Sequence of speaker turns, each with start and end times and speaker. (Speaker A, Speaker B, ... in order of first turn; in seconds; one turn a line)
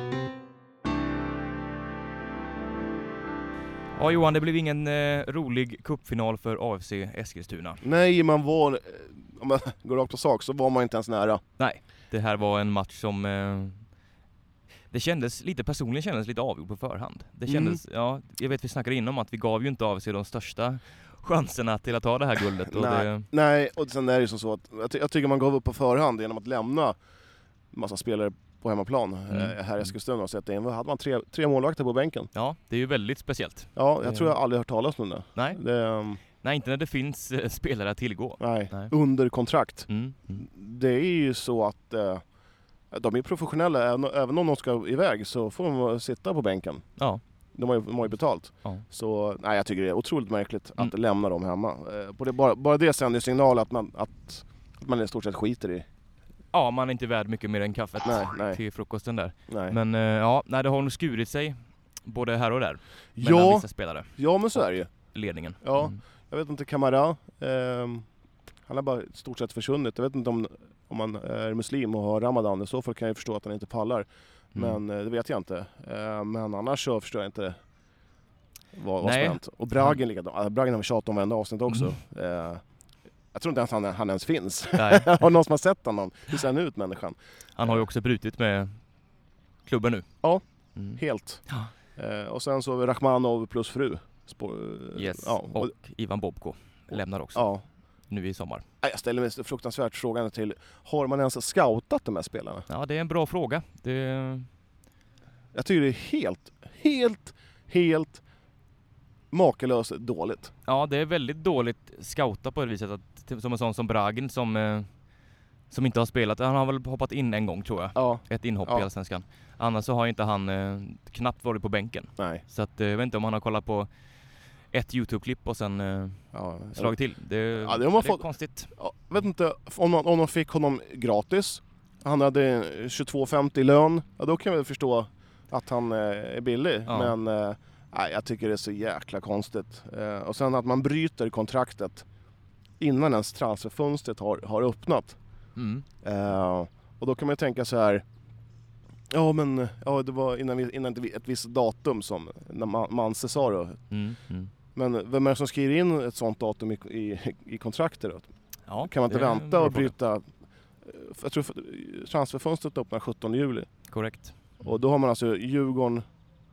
Speaker A: 3.9-7.8
Speaker B: 7.8-11.4
Speaker A: 11.6-13.9
Speaker A: 14.9-23.3
Speaker B: 17.5-17.8
Speaker B: 22.7-27.0
Speaker B: 27.7-32.3
Speaker A: 29.3-29.9
Speaker A: 32.3-34.4
Speaker B: 33.8-36.2
Speaker A: 36.4-38.9
Speaker B: 38.4-42.2
Speaker A: 39.9-40.4
Speaker B: 42.9-46.9
Speaker B: 47.5-55.8
Speaker A: 56.5-66.0
Speaker B: 58.0-58.6
Speaker B: 59.5-59.8
Speaker B: 63.1-64.9
Speaker B: 65.6-68.0
Speaker B: 68.7-77.6
Speaker A: 74.5-74.8
Speaker B: 78.7-82.6
Speaker A: 79.0-80.0
Speaker A: 81.7-81.9
Speaker B: 83.3-87.8
Speaker A: 84.7-85.2
Speaker A: 87.5-88.8
Speaker A: 89.7-90.1
Speaker A: 90.8-91.7
Speaker B: 91.0-91.4
Speaker B: 92.0-95.7
Speaker A: 94.9-97.5
Speaker B: 97.3-97.6
Speaker A: 98.1-98.6
Speaker B: 98.8-102.6
Speaker A: 102.7-104.5
Speaker B: 105.5-108.2
Speaker B: 109.3-110.5
Speaker A: 110.7-114.9
Speaker A: 115.7-123.9
Speaker B: 117.9-118.9
Speaker A: 124.7-128.7
Speaker B: 126.3-127.0
Speaker B: 127.5-128.2
Speaker B: 128.8-142.0
Speaker A: 136.9-137.1
Speaker B: 142.8-145.2
Speaker A: 145.6-145.8
Speaker B: 146.0-148.0
Speaker B: 149.1-153.8
Speaker A: 153.9-154.5
Speaker B: 154.7-158.3
Speaker A: 158.7-159.9
Speaker B: 158.8-160.2
Speaker B: 160.8-163.7
Speaker A: 163.9-164.7
Speaker B: 164.6-166.0